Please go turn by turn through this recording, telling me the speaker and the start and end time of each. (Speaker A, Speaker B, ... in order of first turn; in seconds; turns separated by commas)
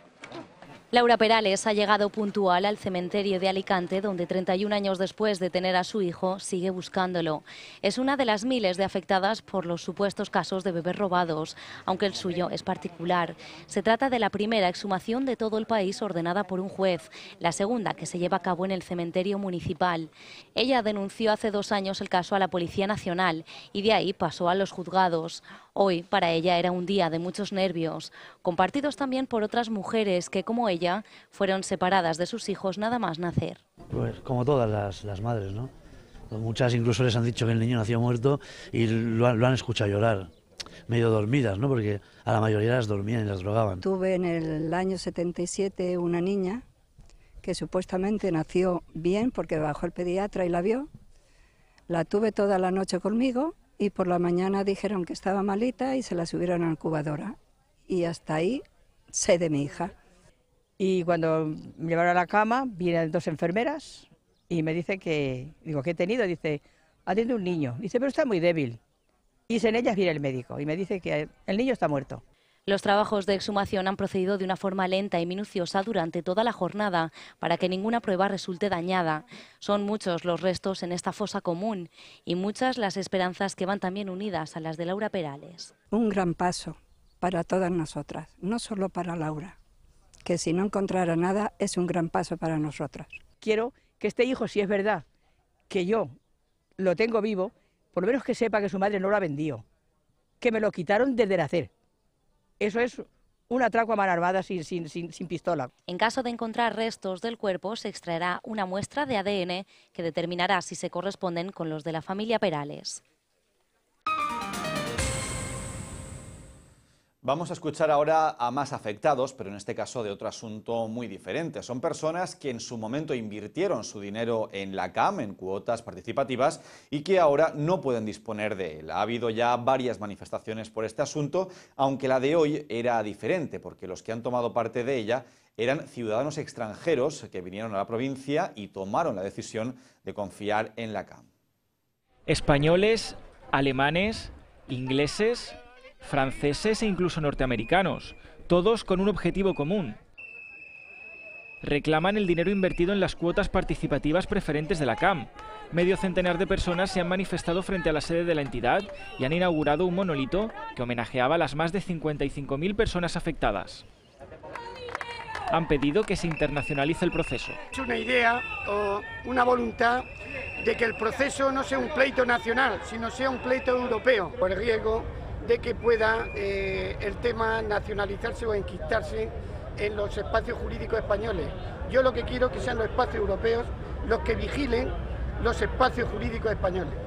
Speaker A: 0.9-33.6, Speaker B: 33.9-35.7, Speaker B: 36.3-40.3, Speaker B: 40.9-43.8, Speaker C: 43.8-46.6, Speaker C: 47.4-50.9, Speaker C: 51.9-57.3, Speaker C: 57.9-59.9, Speaker D: 60.8-68.8, Speaker D: 69.5-72.2, Speaker A: 72.7-85.7, Speaker C: 85.9-89.6, Speaker C: 90.2-93.2, Speaker D: 93.4-95.0, Speaker D: 95.7-96.1, Speaker D: 96.8-99.6, Speaker D: 100.4-101.7, Speaker D: 102.6-105.7, Speaker A: 105.9-113.0, Speaker E: 117.2-141.3, Speaker F: 142.3-150.0, Speaker F: 151.6-163.8, Speaker F: 165.5-167.6, Speaker G: 167.7-170.1, Speaker G: 170.6-186.9